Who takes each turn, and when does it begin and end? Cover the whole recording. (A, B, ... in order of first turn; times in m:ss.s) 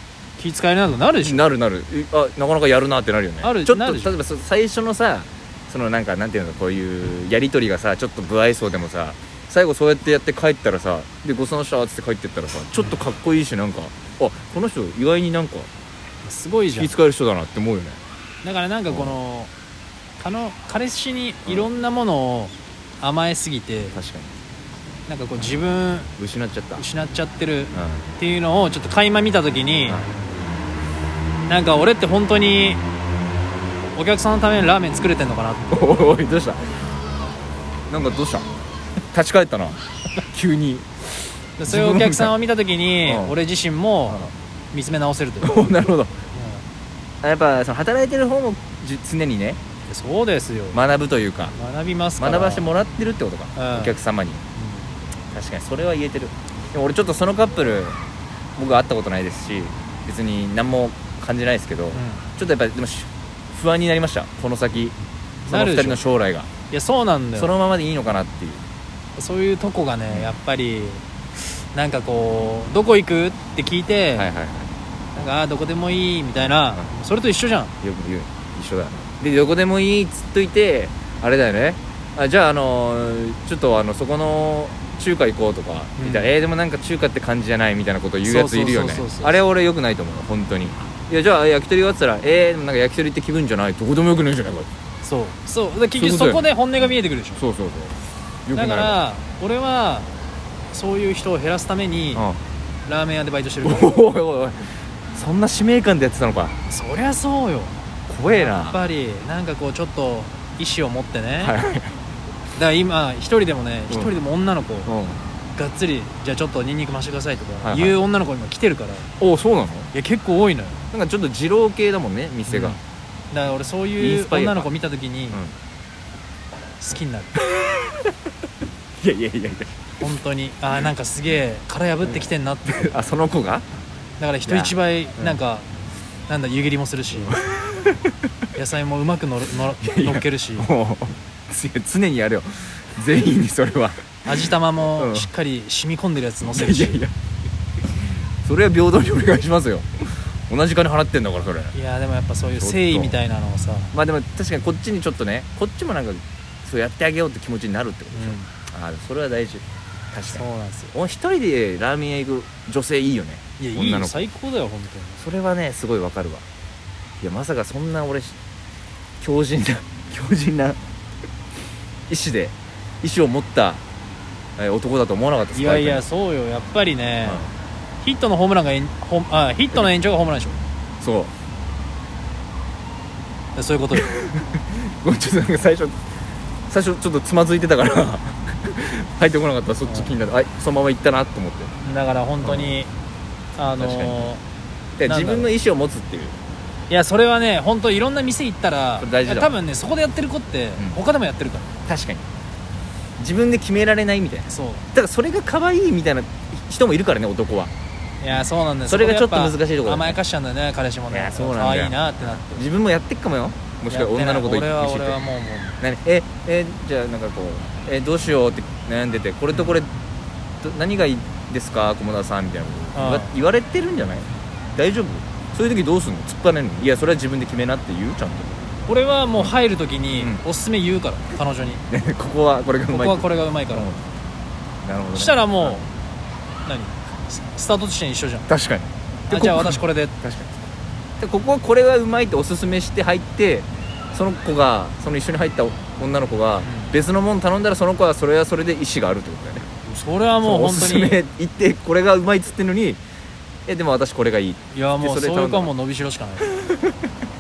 0:00.4-0:01.5 A
0:01.2-0:15.7 B
0:03.4-0:04.1 A
0:16.2-0:16.9 A
0:16.7-0:18.0 B
0:18.4-0:19.5 A
0:18.9-0:19.2 B
0:20.2-0:24.0 A
0:21.4-0:21.7 B
0:23.9-0:24.4 B
0:25.1-0:26.1 A
0:26.2-0:26.8 B
0:26.8-0:30.0 A
0:27.7-0:28.1 B
0:29.9-0:30.1 B
0:31.5-0:32.8 A
0:33.9-0:35.7 A
0:35.7-0:36.8 B
0:37.9-0:38.5 B
0:39.1-0:40.9 B
0:41.6-0:45.7 A
0:41.7-0:42.4 B
0:43.1-0:43.4 B
0:45.4-0:46.2 B
0:46.3-0:46.6 A
0:47.2-0:49.6 B
0:49.9-0:50.8 A
0:50.7-0:51.6 B
0:51.6-0:52.7 A
0:52.2-0:54.4 B
0:53.6-0:54.0 A
0:54.6-0:54.9 A
0:55.3-0:58.0 B
0:58.6-1:06.5 B
1:01.9-1:02.3 A
1:05.5-1:06.0 A
1:06.7-1:07.5 A
1:07.4-1:08.6 B
1:09.2-1:14.3 A
1:10.1-1:10.4 B
1:14.2-1:14.8 B
1:15.2-1:17.7 A
1:17.8-1:34.7 B
1:26.0-1:26.3 A
1:28.2-1:29.4 A
1:35.0-1:37.4 A
1:36.0-1:38.0 B
1:38.5-1:39.0 B
1:38.5-1:40.1 A
1:40.7-1:42.2 A
1:42.2-1:42.4 B
1:42.9-1:44.0 A
1:43.6-1:46.6 B
1:46.7-1:51.6 A
1:48.1-1:48.8 B
1:51.4-1:52.0 B
1:52.6-1:54.9 A
1:53.9-1:54.2 B
1:54.9-1:55.2 B
1:55.6-1:59.1 A
1:57.6-1:58.0 B
1:59.2-1:59.9 B
1:59.9-2:00.8 A
2:00.9-2:02.8 B
2:02.5-2:02.8 A
2:03.3-2:05.4 A
2:04.0-2:04.7 B
2:06.8-2:07.3 A
2:07.4-2:08.1 B
2:09.0-2:10.0 B
2:10.0-2:13.0 A
2:12.6-2:13.6 B
2:14.2-2:15.7 A
2:14.5-2:15.4 B
2:16.3-2:17.4 A
2:17.2-2:18.1 B
2:18.6-2:20.7 A
2:19.8-2:25.3 B
2:24.2-2:27.0 A
2:26.4-2:27.1 B
2:28.4-2:31.7 B
2:31.7-2:33.9 A
2:32.6-2:33.2 B
2:33.9-2:44.3 B
2:38.1-2:38.5 A
2:40.3-2:40.9 A
2:43.6-2:45.2 A
2:45.2-2:46.4 B
2:47.2-2:48.4 B
2:49.2-2:50.8 B
2:52.1-2:53.8 B
2:54.6-2:56.1 B
2:55.5-2:57.5 A
2:57.2-2:57.5 B
2:58.0-3:00.6 A
3:01.0-3:01.3 B
3:03.6-3:04.1 A
3:03.9-3:06.0 B
3:06.7-3:11.7 B
3:09.9-3:10.2 A
3:11.8-3:12.9 A
3:12.4-3:12.8 B
3:13.6-3:14.4 A
3:13.8-3:14.3 B
3:15.0-3:16.4 B
3:15.0-3:15.5 A
3:16.9-3:21.8 A
3:19.0-3:19.5 B
3:21.9-3:22.3 B
3:23.2-3:27.7 B
3:24.5-3:24.9 A
3:28.2-3:32.7 A
3:28.3-3:30.2 B
3:31.1-3:35.2 B
3:33.9-3:35.8 A
3:35.8-3:39.9 B
3:40.6-3:48.6 B
3:42.9-3:43.3 A
3:48.9-3:51.8 A
3:50.2-3:50.4 B
3:51.9-3:54.0 B
3:52.9-3:53.9 A
3:54.8-3:55.8 B
3:55.1-3:55.9 A
3:56.7-3:58.5 A
3:58.5-4:00.6 B
3:59.3-4:00.2 A
4:01.2-4:09.7 B
4:06.6-4:06.9 A
4:09.8-4:11.2 A
4:10.4-4:13.0 B
4:13.7-4:15.7 B
4:14.7-4:16.5 A
4:16.5-4:17.0 B